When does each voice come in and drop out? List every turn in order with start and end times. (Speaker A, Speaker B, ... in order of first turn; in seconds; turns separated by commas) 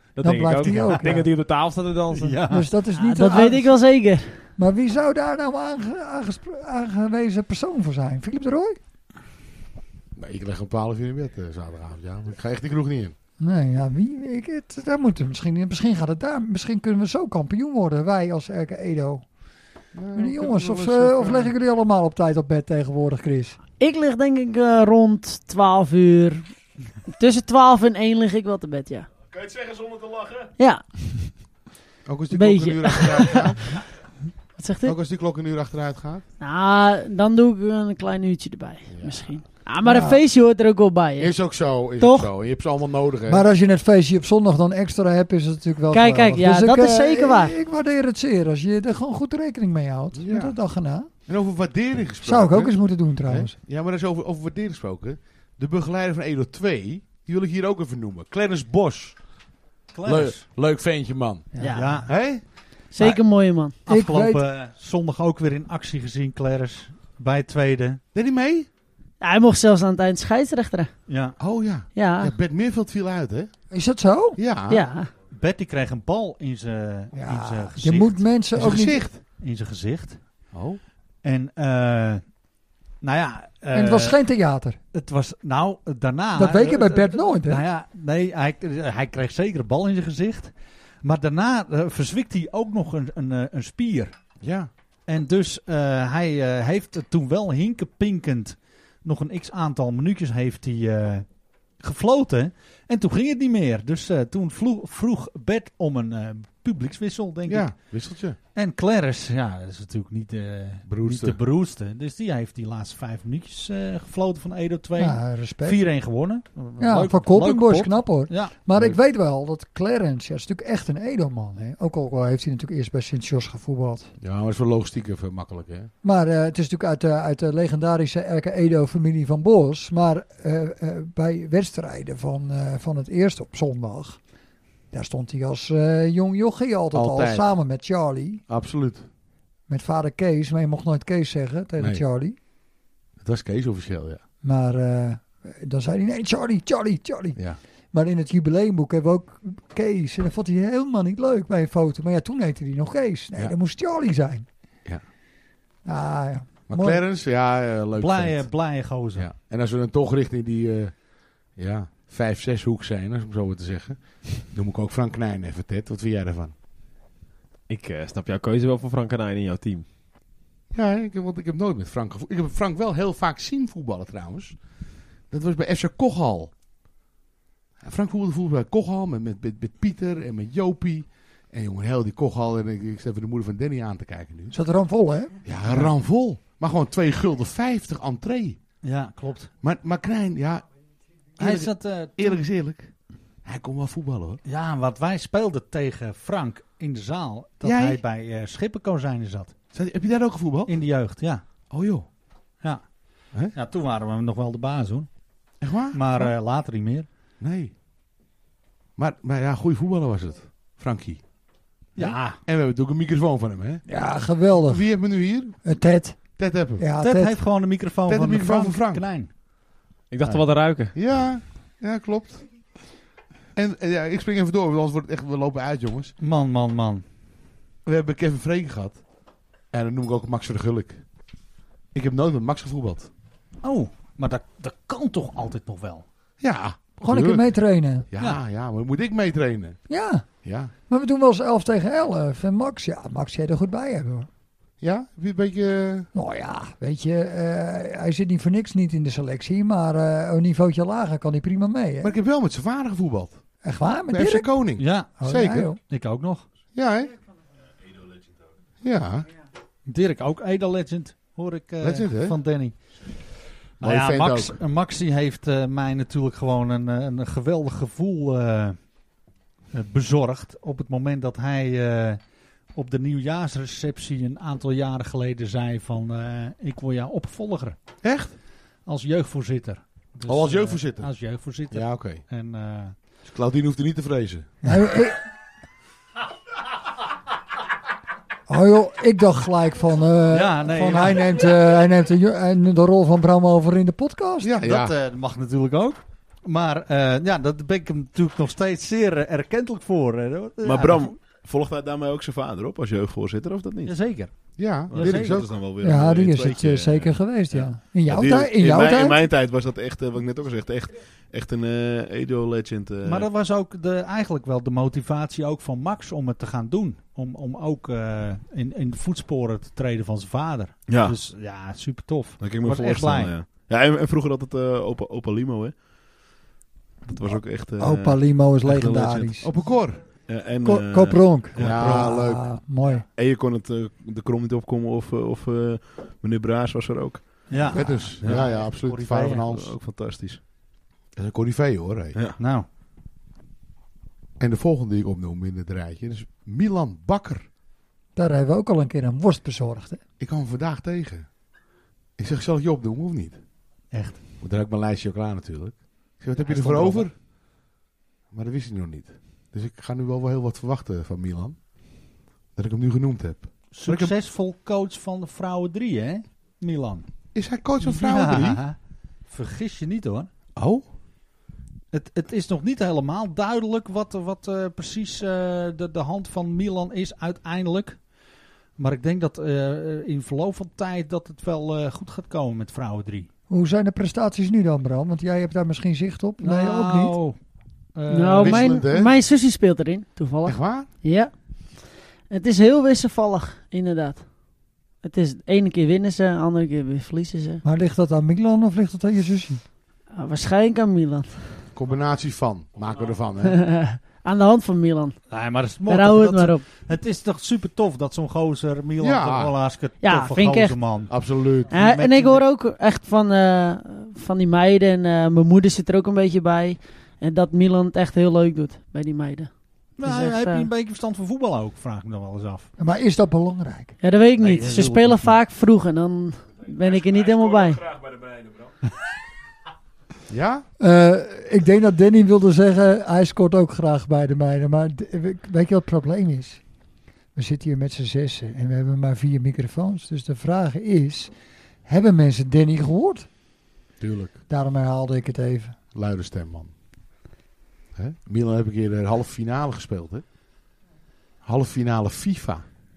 Speaker A: 0.2-2.4, Speaker B: 0.2-1.3, Speaker C: 0.6-1.1, Speaker C: 2.1-2.7, Speaker B: 2.5-3.7, Speaker D: 3.0-4.4, Speaker B: 4.6-8.8, Speaker E: 10.2-13.1, Speaker B: 13.4-19.2, Speaker E: 19.9-21.5, Speaker B: 20.1-23.6, Speaker D: 23.8-26.4, Speaker D: 27.1-29.1, Speaker F: 29.3-30.5, Speaker D: 30.6-31.3, Speaker E: 32.0-33.8, Speaker D: 32.3-33.8, Speaker D: 34.6-35.0, Speaker E: 34.8-36.2, Speaker D: 36.4-41.3, Speaker E: 38.9-39.3, Speaker B: 39.8-40.2, Speaker E: 41.2-43.4, Speaker D: 42.0-42.3, Speaker B: 43.3-51.1, Speaker D: 45.9-47.6, Speaker E: 50.1-50.6, Speaker E: 51.2-59.2, Speaker B: 52.2-53.5, Speaker C: 59.9-60.4, Speaker E: 60.0-62.4, Speaker D: 61.6-63.8, Speaker C: 61.7-62.1, Speaker B: 63.9-64.4, Speaker C: 63.9-68.0, Speaker E: 68.1-68.7, Speaker D: 69.2-70.9, Speaker C: 71.1-71.4, Speaker E: 71.4-73.5, Speaker D: 71.9-72.3, Speaker B: 73.7-74.4, Speaker E: 74.3-74.8, Speaker D: 74.7-75.1, Speaker C: 75.3-80.2, Speaker B: 77.1-79.0, Speaker E: 78.5-79.2, Speaker E: 80.5-80.8, Speaker C: 81.2-82.2, Speaker C: 83.0-84.2, Speaker B: 83.7-84.8, Speaker C: 84.9-94.1, Speaker B: 86.3-87.6, Speaker E: 94.4-94.7, Speaker C: 95.1-101.3, Speaker C: 101.8-107.8, Speaker E: 107.5-108.4, Speaker C: 108.5-118.5, Speaker E: 110.8-111.4, Speaker B: 115.0-115.8, Speaker B: 116.8-124.1, Speaker E: 124.2-125.9, Speaker B: 126.0-134.2, Speaker B: 134.9-138.4, Speaker E: 136.9-137.6, Speaker E: 138.5-139.1, Speaker B: 139.7-142.3, Speaker E: 141.8-142.0, Speaker E: 143.2-144.2, Speaker B: 144.4-147.4, Speaker B: 147.9-154.4, Speaker B: 155.8-157.0, Speaker E: 156.7-166.5, Speaker C: 158.0-159.3, Speaker A: 167.7-169.8, Speaker E: 170.7-174.6, Speaker E: 175.3-176.5, Speaker E: 177.8-184.6, Speaker B: 184.5-185.3, Speaker E: 185.4-188.6, Speaker C: 188.8-189.5, Speaker E: 189.6-190.7, Speaker E: 191.4-192.9, Speaker C: 191.4-192.4, Speaker E: 193.4-194.4, Speaker C: 194.4-199.5, Speaker E: 197.6-198.0, Speaker E: 199.7-200.8, Speaker C: 200.7-201.4, Speaker E: 201.7-202.1, Speaker C: 203.5-205.1, Speaker E: 205.6-206.0, Speaker C: 205.9-207.1, Speaker E: 207.4-207.7, Speaker E: 209.0-211.2, Speaker C: 211.9-212.4, Speaker E: 211.9-213.8, Speaker B: 213.9-214.9, Speaker E: 214.6-215.6, Speaker B: 215.6-216.2, Speaker E: 216.3-216.8, Speaker B: 216.8-217.4, Speaker C: 217.0-219.3, Speaker E: 218.1-219.1, Speaker A: 220.1-220.9, Speaker E: 220.2-222.4, Speaker E: 223.5-226.1, Speaker C: 226.2-227.0, Speaker E: 227.8-229.0, Speaker E: 229.7-231.0, Speaker E: 231.9-233.1, Speaker C: 233.6-236.1, Speaker E: 236.4-237.5, Speaker B: 237.0-238.1, Speaker E: 238.1-239.8, Speaker B: 239.9-240.3, Speaker E: 240.4-240.7, Speaker B: 240.9-244.3, Speaker E: 244.8-246.1, Speaker B: 246.1-252.1, Speaker E: 252.0-253.4, Speaker B: 253.6-254.5, Speaker E: 254.1-255.7, Speaker C: 254.8-255.2, Speaker B: 255.2-255.8, Speaker C: 255.8-256.4, Speaker E: 256.7-257.1, Speaker E: 258.8-259.3, Speaker C: 259.9-262.8, Speaker E: 261.8-262.4, Speaker E: 263.8-264.6, Speaker C: 263.8-268.8, Speaker C: 269.7-272.2, Speaker C: 272.7-277.8, Speaker E: 278.0-278.4, Speaker C: 278.9-282.9, Speaker E: 280.2-281.1, Speaker E: 281.7-282.2, Speaker E: 283.2-284.5, Speaker B: 284.6-285.2, Speaker B: 288.5-294.5, Speaker C: 290.3-291.2, Speaker E: 294.4-294.9, Speaker C: 294.6-301.1, Speaker F: 300.6-304.0, Speaker C: 303.9-304.3, Speaker E: 304.6-305.6, Speaker C: 304.9-305.4, Speaker F: 304.9-313.3, Speaker B: 305.8-309.2, Speaker C: 313.0-323.4, Speaker F: 320.9-321.2, Speaker F: 322.4-325.8, Speaker F: 327.1-329.3, Speaker B: 327.3-329.5, Speaker E: 329.4-330.0, Speaker F: 330.2-331.7, Speaker B: 330.6-333.0, Speaker C: 331.5-332.1, Speaker E: 331.6-332.5, Speaker F: 333.1-338.6, Speaker C: 337.5-339.5, Speaker E: 337.7-339.8, Speaker F: 339.5-340.4, Speaker E: 341.1-342.2, Speaker C: 342.4-342.7, Speaker E: 344.4-347.4, Speaker B: 348.1-350.0, Speaker E: 350.2-351.3, Speaker E: 352.2-353.4, Speaker C: 353.9-354.2, Speaker E: 354.4-357.1, Speaker C: 356.4-357.1, Speaker E: 358.3-361.6, Speaker E: 362.6-364.1, Speaker C: 363.7-367.1, Speaker E: 367.3-368.6, Speaker C: 367.8-368.8, Speaker C: 369.3-370.3, Speaker E: 370.6-370.9, Speaker C: 371.9-378.0, Speaker C: 378.8-383.3, Speaker B: 383.5-387.1, Speaker C: 386.4-387.4, Speaker C: 387.9-388.7, Speaker D: 388.1-391.3, Speaker E: 388.4-389.1, Speaker E: 390.4-390.9, Speaker D: 392.3-394.3, Speaker D: 395.0-397.6, Speaker B: 397.6-399.6, Speaker D: 400.1-401.6, Speaker E: 401.7-403.6, Speaker D: 403.4-405.2, Speaker C: 405.3-411.2, Speaker D: 405.9-406.6, Speaker E: 409.0-409.6, Speaker D: 410.0-410.8, Speaker E: 411.1-411.7, Speaker C: 411.7-412.4, Speaker D: 411.7-420.7, Speaker C: 420.0-422.7, Speaker B: 422.8-423.9, Speaker D: 424.0-427.9, Speaker C: 424.4-425.4, Speaker E: 430.3-430.6, Speaker B: 430.8-436.6, Speaker B: 437.3-441.3, Speaker B: 441.9-443.3, Speaker E: 444.0-444.4, Speaker B: 444.5-445.8, Speaker E: 445.9-446.7, Speaker E: 447.9-450.2, Speaker E: 451.4-452.6